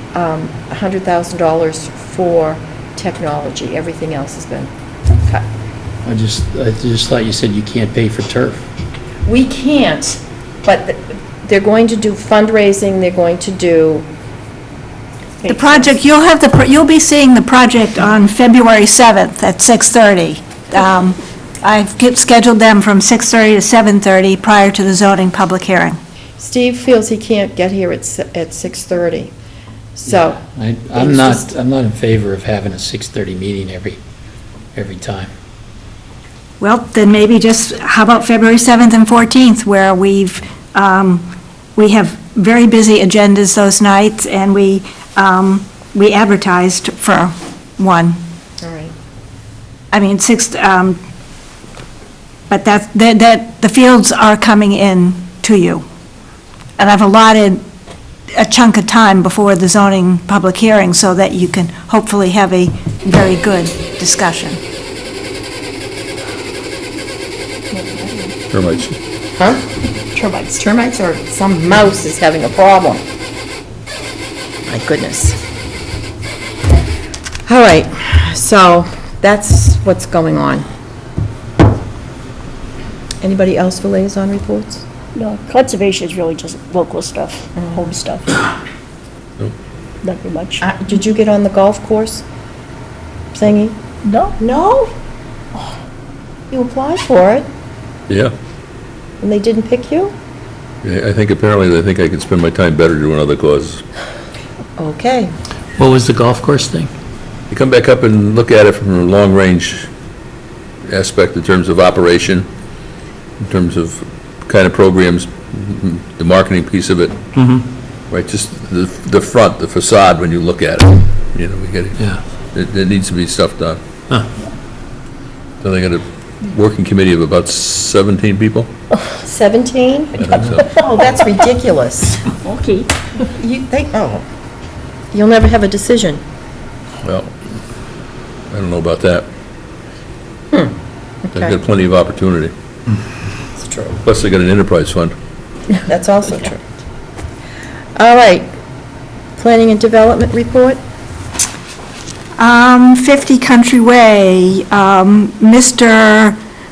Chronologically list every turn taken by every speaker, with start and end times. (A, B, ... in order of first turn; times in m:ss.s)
0:00.1-0:05.5 A
0:06.0-0:08.6 B
0:09.2-0:14.1 A
0:15.5-0:26.0 C
0:26.4-0:29.3 A
0:30.0-0:30.4 A
0:30.4-0:34.0 B
0:30.9-0:31.5 A
0:34.7-0:35.3 B
0:36.6-0:48.2 C
0:48.6-0:48.9 A
0:49.9-0:51.0 C
0:52.5-0:55.8 C
0:56.8-0:57.6 C
0:58.3-1:04.6 C
1:07.7-1:08.3 D
1:08.5-1:09.0 E
1:09.3-1:09.6 A
1:10.1-1:10.6 D
1:10.6-1:13.0 A
1:14.6-1:15.4 A
1:17.5-1:20.7 A
1:23.2-1:24.8 A
1:25.1-1:28.5 D
1:27.6-1:27.9 A
1:30.0-1:30.6 D
1:30.6-1:32.2 A
1:33.3-1:33.8 A
1:34.0-1:34.4 D
1:34.4-1:34.9 A
1:36.5-1:37.5 A
1:39.2-1:40.1 A
1:40.8-1:43.8 E
1:44.8-1:45.3 A
1:45.8-1:46.9 B
1:47.5-1:49.9 E
1:50.8-1:52.5 E
1:53.4-1:57.2 E
1:57.3-1:57.6 B
1:58.1-2:02.0 E
2:02.5-2:03.8 E
2:05.6-2:08.7 E
2:09.2-2:12.2 A
2:10.2-2:10.7 E
2:12.4-2:13.0 D
2:13.3-2:14.2 A
2:15.1-2:16.2 A
2:17.0-2:17.3 E
2:18.5-2:19.3 E
2:20.5-2:21.5 A
2:21.3-2:22.5 E
2:23.5-2:24.0 A
2:24.0-2:25.1 E
2:25.7-2:26.6 A
2:28.0-2:28.5 A
2:29.4-2:30.8 A
2:32.4-2:36.4 C